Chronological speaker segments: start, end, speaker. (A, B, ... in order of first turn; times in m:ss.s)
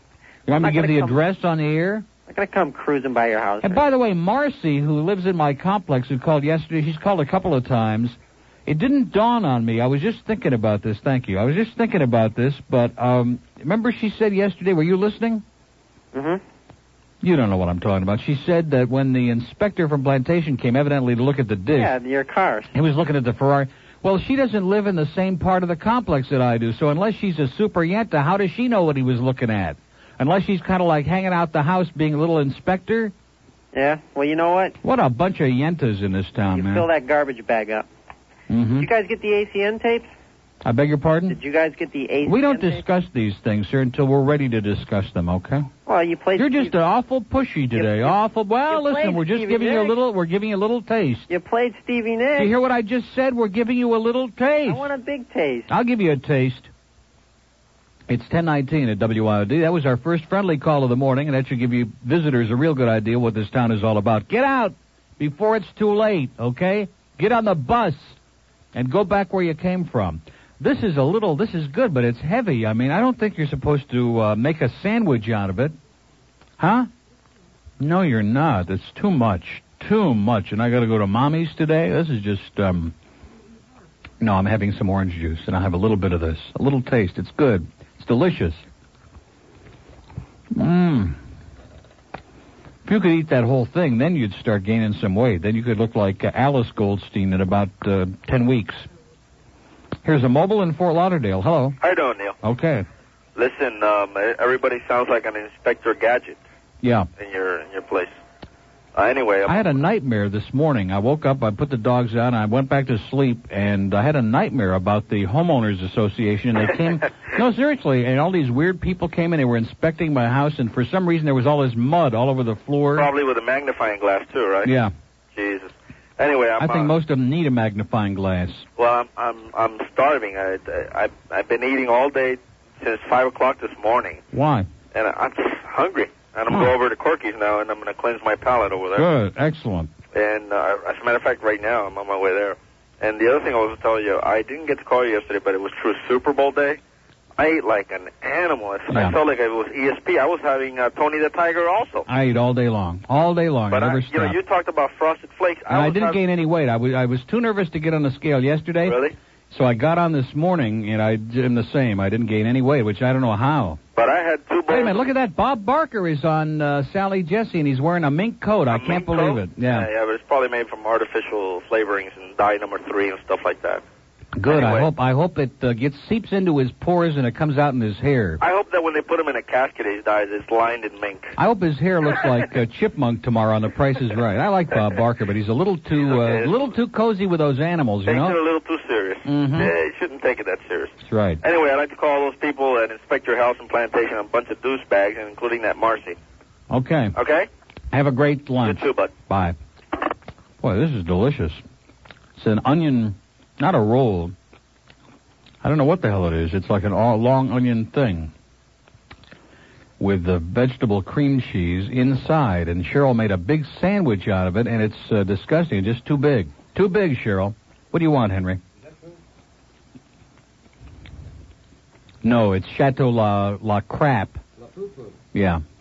0:00.5-0:02.1 A
0:00.6-0:01.2 B
0:02.3-0:03.8 B
0:03.6-0:15.4 A
0:16.1-0:16.4 B
0:17.2-0:21.9 A
0:21.7-0:22.7 B
0:22.7-0:33.1 A
0:33.7-0:34.8 B
0:34.8-0:36.9 A
0:36.5-0:37.9 B
0:38.5-0:38.9 A
0:38.8-0:40.1 B
0:40.6-0:41.4 A
0:41.3-0:42.8 B
0:42.3-0:45.7 A
0:45.9-0:46.7 B
0:46.4-0:51.3 A
0:47.8-0:48.1 B
0:48.7-0:50.0 B
0:51.3-0:52.5 B
0:52.4-0:54.9 A
0:54.7-0:55.7 B
0:55.7-0:56.7 A
0:58.1-1:08.2 A
1:08.7-1:15.8 A
1:16.6-1:16.9 A
1:17.8-1:23.0 A
1:24.2-1:28.6 A
1:30.5-1:31.2 A
1:32.8-1:38.9 A
1:40.0-1:41.8 A
1:41.8-1:42.4 C
1:42.4-1:42.9 A
1:43.4-1:46.4 C
1:46.8-1:47.1 A
1:47.2-1:48.1 C
1:49.0-1:49.8 C
1:49.5-2:03.1 A
2:03.0-2:04.7 C
2:04.6-2:04.9 A
2:05.4-2:06.9 C
2:06.6-2:08.7 A
2:08.8-2:14.2 C
2:14.3-2:14.7 A
2:14.9-2:19.1 C
2:19.0-2:19.9 A
2:20.1-2:26.8 C
2:27.4-2:32.1 C
2:28.9-2:29.2 A
2:32.1-2:34.4 A
2:33.7-2:36.2 C
2:35.7-2:43.8 A
2:38.9-2:39.2 C
2:44.0-2:45.1 C
2:44.7-2:49.9 A
2:48.7-2:53.8 C
2:54.4-2:58.4 A
2:54.5-2:54.9 C
2:58.4-3:01.3 C
3:01.4-3:08.4 A
3:06.0-3:06.6 C
3:08.1-3:16.2 C
3:09.2-3:09.7 A
3:11.0-3:11.4 A
3:16.7-3:17.2 A
3:17.2-3:17.5 C
3:17.9-3:19.6 A
3:18.6-3:19.1 C
3:20.6-3:21.6 A
3:22.4-3:24.3 A
3:25.6-3:28.3 A
3:30.0-3:38.6 A
3:42.2-3:44.4 A
3:45.3-3:45.6 A